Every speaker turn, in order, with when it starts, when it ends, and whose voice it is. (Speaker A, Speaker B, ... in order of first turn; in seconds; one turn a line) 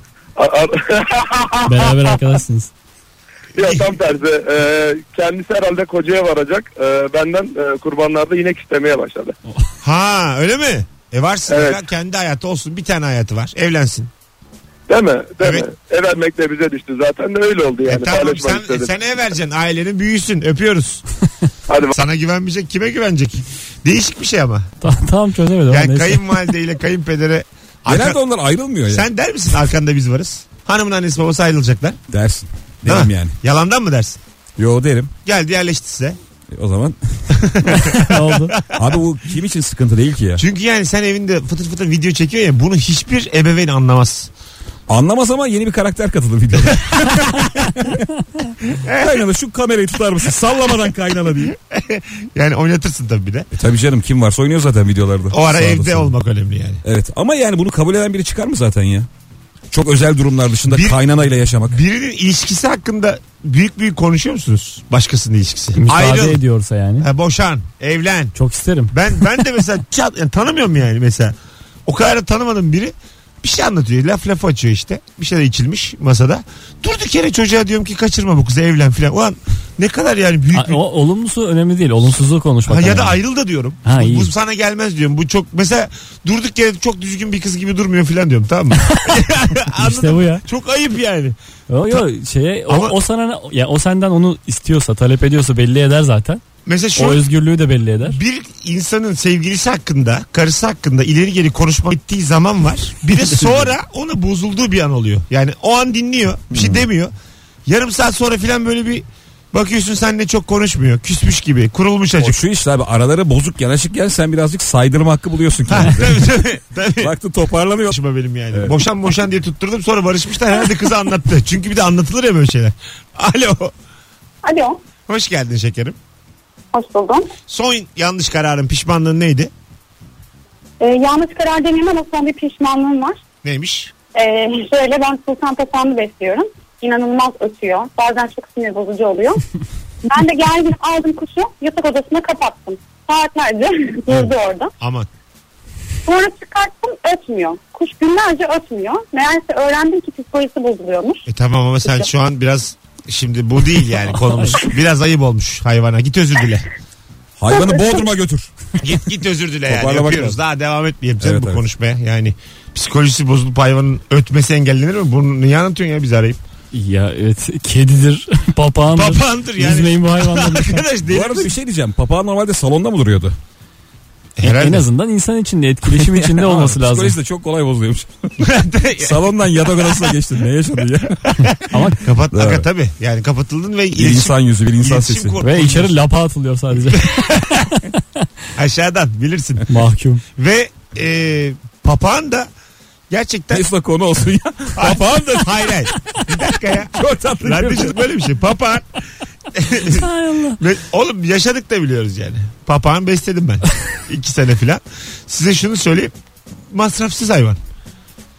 Speaker A: 0.4-2.0
Speaker B: 1.6-2.7
Speaker A: 3.6-9.3
Speaker C: 3.6-3.9
Speaker C: 9.8-14.1
Speaker A: 11.5-11.8
Speaker A: 14.9-18.9
Speaker C: 15.4-15.7
Speaker C: 17.9-21.0
Speaker A: 21.7-21.9
Speaker C: 21.9-24.7
Speaker B: 24.8-26.4
Speaker C: 25.7-28.2
Speaker D: 27.9-29.1
Speaker C: 28.9-32.0
Speaker D: 32.1-33.4
Speaker C: 32.9-34.2
Speaker D: 34.6-35.1
Speaker C: 35.2-36.2
Speaker D: 36.5-37.2
Speaker C: 37.3-38.2
Speaker B: 37.6-38.6
Speaker D: 38.7-40.4
Speaker C: 40.4-44.3
Speaker D: 44.9-48.0
Speaker C: 47.1-47.4
Speaker C: 48.7-49.2
Speaker D: 49.0-51.5
Speaker C: 51.5-53.5
Speaker D: 53.5-56.1
Speaker C: 55.3-56.8
Speaker D: 56.8-59.1
Speaker D: 59.7-61.8
Speaker C: 60.7-61.0
Speaker C: 61.7-66.4
Speaker B: 65.8-67.1
Speaker C: 67.0-68.3
Speaker B: 68.3-69.0
Speaker C: 68.9-71.3
Speaker C: 71.9-80.8
Speaker B: 80.5-83.2
Speaker C: 82.7-91.4
Speaker B: 83.8-84.3
Speaker B: 89.8-90.4
Speaker B: 91.7-96.4
Speaker C: 92.7-93.0
Speaker C: 96.7-97.2
Speaker B: 97.0-98.2
Speaker C: 98.1-107.1
Speaker D: 106.5-106.8
Speaker C: 107.7-112.4
Speaker D: 112.2-116.3
Speaker C: 115.7-117.1
Speaker D: 117.0-118.0
Speaker C: 117.9-123.7
Speaker E: 124.4-124.8
Speaker C: 125.1-126.0
Speaker E: 126.7-127.3
Speaker C: 127.5-129.5
Speaker E: 130.8-133.2
Speaker C: 133.4-133.9
Speaker E: 134.1-139.4
Speaker E: 140.1-144.7
Speaker C: 144.1-145.1
Speaker E: 146.1-151.2
Speaker C: 151.3-156.7
Speaker D: 157.4-158.5
Speaker E: 157.5-158.1
Speaker C: 158.8-166.4
Speaker D: 159.7-160.4
Speaker D: 161.2-161.6
Speaker B: 166.7-170.8
Speaker C: 168.9-171.5
Speaker D: 171.1-173.4
Speaker C: 174.4-174.9
Speaker B: 174.4-177.2
Speaker D: 175.9-178.3
Speaker C: 178.4-179.2
Speaker D: 179.0-181.3
Speaker C: 181.3-185.9
Speaker B: 181.7-182.0
Speaker D: 182.3-182.7
Speaker D: 184.0-185.4
Speaker B: 185.4-188.0
Speaker C: 186.9-187.6
Speaker C: 188.6-189.6
Speaker B: 189.7-190.2
Speaker C: 190.4-192.5
Speaker C: 193.1-193.6
Speaker D: 193.5-196.2
Speaker C: 194.8-198.9
Speaker D: 196.9-198.0
Speaker C: 199.5-200.1
Speaker B: 199.8-200.6
Speaker C: 200.6-206.1
Speaker C: 206.7-207.6